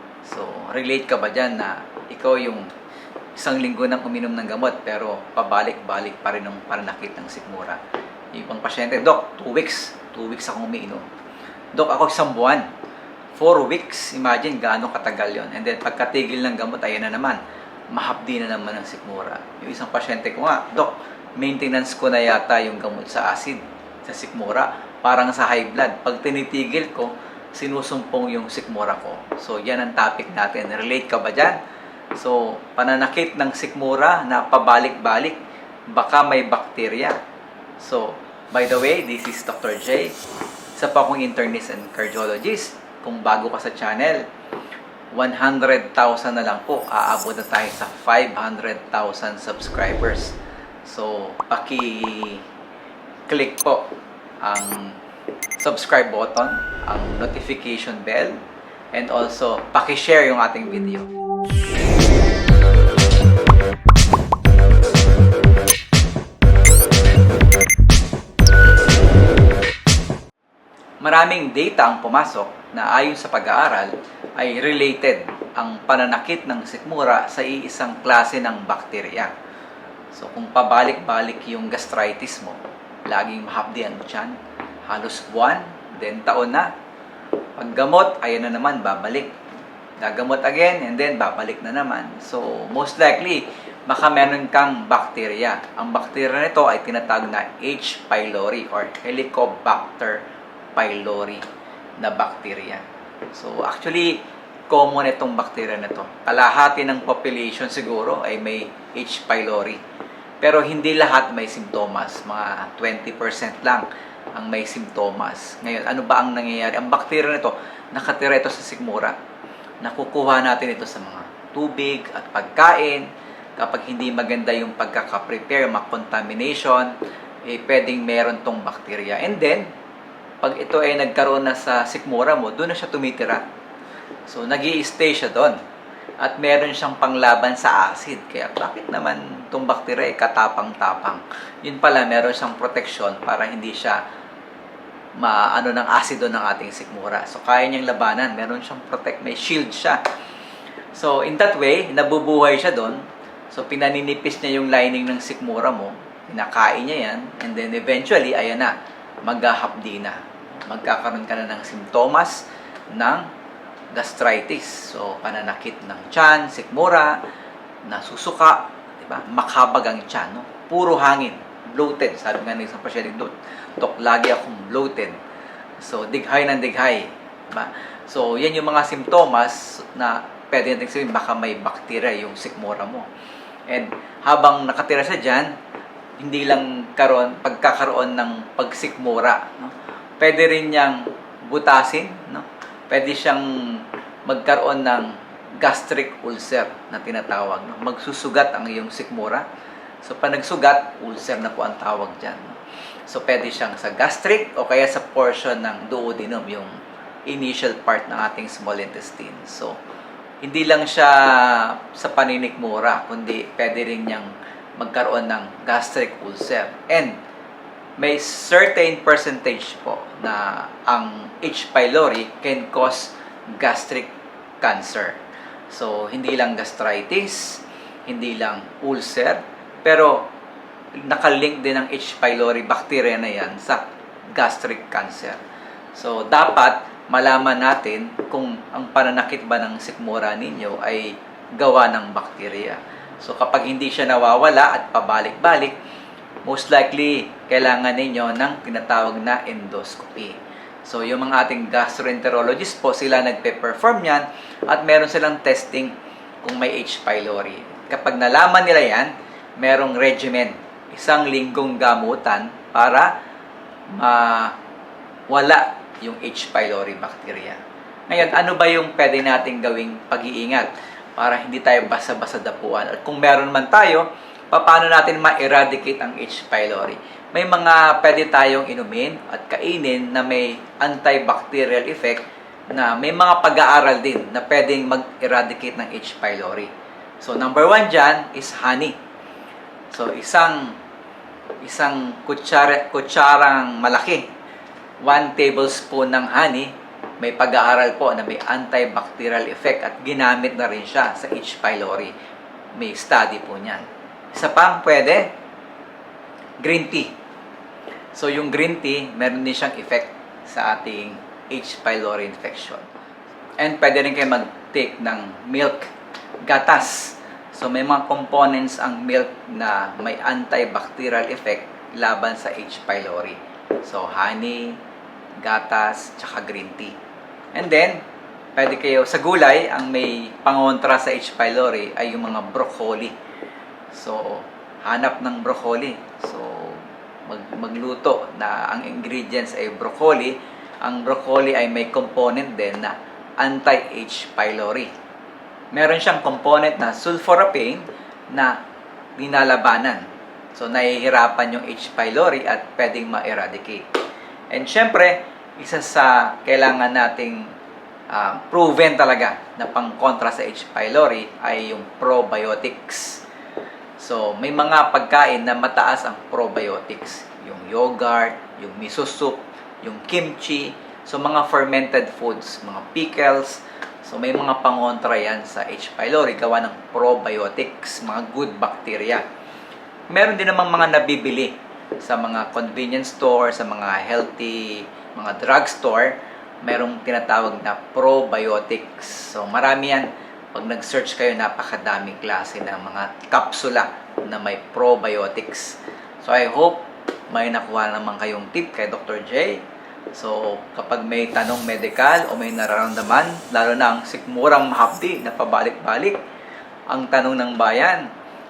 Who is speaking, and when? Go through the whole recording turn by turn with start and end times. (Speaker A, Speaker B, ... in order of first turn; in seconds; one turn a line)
Speaker A: 0.2-2.7
Speaker A: 3.4-7.8
Speaker A: 8.3-11.1
Speaker A: 11.7-12.7
Speaker A: 13.4-31.6
Speaker A: 32.1-35.4
Speaker A: 35.9-37.2
Speaker A: 37.8-40.2
Speaker A: 40.8-44.2
Speaker A: 45.1-52.5
Speaker A: 53.3-53.9
Speaker A: 54.4-55.0
Speaker A: 55.6-58.4
Speaker A: 58.9-61.1
Speaker A: 71.0-79.3
Speaker A: 80.1-84.4
Speaker A: 84.9-86.7
Speaker A: 87.6-89.3
Speaker A: 90.0-100.2
Speaker A: 100.8-101.5
Speaker A: 102.0-109.8
Speaker A: 110.4-119.2
Speaker A: 119.8-126.9
Speaker A: 127.5-129.7
Speaker A: 130.4-133.4
Speaker A: 134.3-135.6
Speaker A: 136.2-144.0
Speaker A: 145.2-150.0
Speaker A: 150.9-163.3
Speaker A: 163.9-167.2
Speaker A: 167.8-175.2
Speaker A: 175.8-183.1
Speaker A: 183.7-185.5
Speaker A: 186.2-199.4
Speaker A: 200.0-206.7
Speaker A: 207.3-209.8
Speaker A: 210.4-217.2
Speaker A: 218.0-230.3
Speaker A: 231.0-233.8
Speaker A: 234.3-235.4
Speaker A: 235.9-245.8
Speaker A: 246.4-263.1
Speaker A: 263.9-264.6
Speaker A: 265.3-289.0
Speaker A: 289.9-290.8
Speaker A: 291.6-294.3
Speaker A: 295.0-302.1
Speaker A: 302.8-305.3
Speaker A: 306.6-307.1
Speaker A: 308.1-312.9
Speaker A: 313.6-315.9
Speaker A: 316.4-324.8
Speaker A: 325.4-326.9
Speaker A: 327.5-328.0
Speaker A: 328.6-333.1
Speaker A: 333.9-344.9
Speaker A: 345.7-348.6
Speaker A: 349.2-350.0
Speaker A: 350.6-353.9
Speaker A: 354.5-357.5
Speaker A: 358.1-363.2
Speaker A: 364.0-379.2
Speaker A: 380.1-399.6
Speaker A: 400.1-406.2
Speaker A: 406.9-408.1